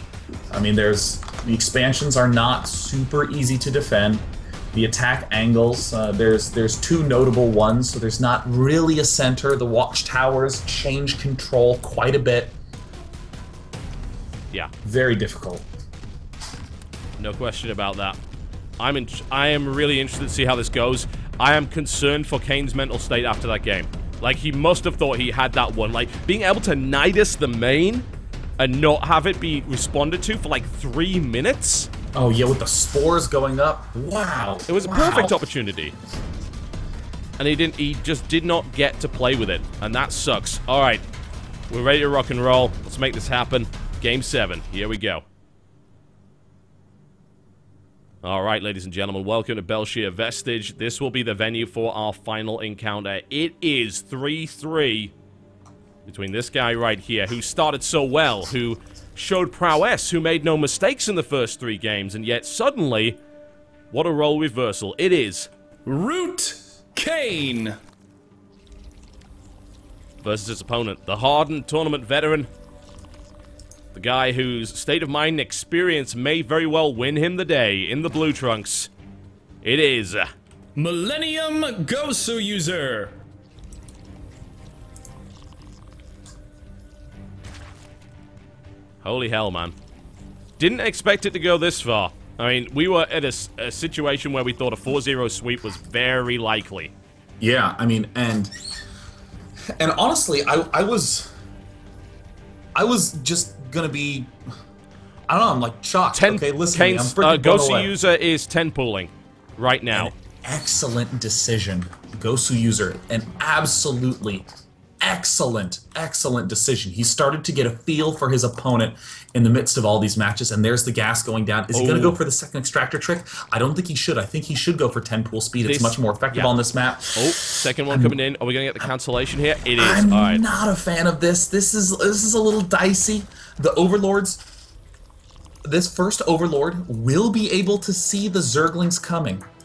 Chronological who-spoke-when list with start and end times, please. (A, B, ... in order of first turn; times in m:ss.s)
0:00.5-0:12.6 A
0:14.8-0:15.7 A
0:17.2-0:18.2 B
0:18.8-0:28.1 B
0:28.6-0:31.9 B
0:32.2-0:35.4 A
0:34.7-0:36.0 B
0:37.4-0:41.0 B
0:41.7-0:45.2 B
0:48.2-0:55.1 B
0:56.1-1:03.2 B
1:03.9-1:05.5 B
1:05.9-1:07.8 C
1:10.2-1:12.5 B
1:13.9-1:18.9 B
1:19.6-1:20.3 B
1:20.8-1:23.2 C
1:29.0-1:29.8 B
1:30.6-1:36.9 B
1:37.4-1:38.5 A
1:39.8-1:41.3 A
1:42.8-1:44.3 A
1:45.3-1:47.9 A
1:46.1-1:50.1 B
1:49.9-1:54.5 A
1:55.0-2:08.2 A
2:01.7-2:02.2 B
2:05.6-2:06.5 B
2:07.2-2:10.4 B
2:09.8-2:14.4 A
2:15.6-2:19.4 A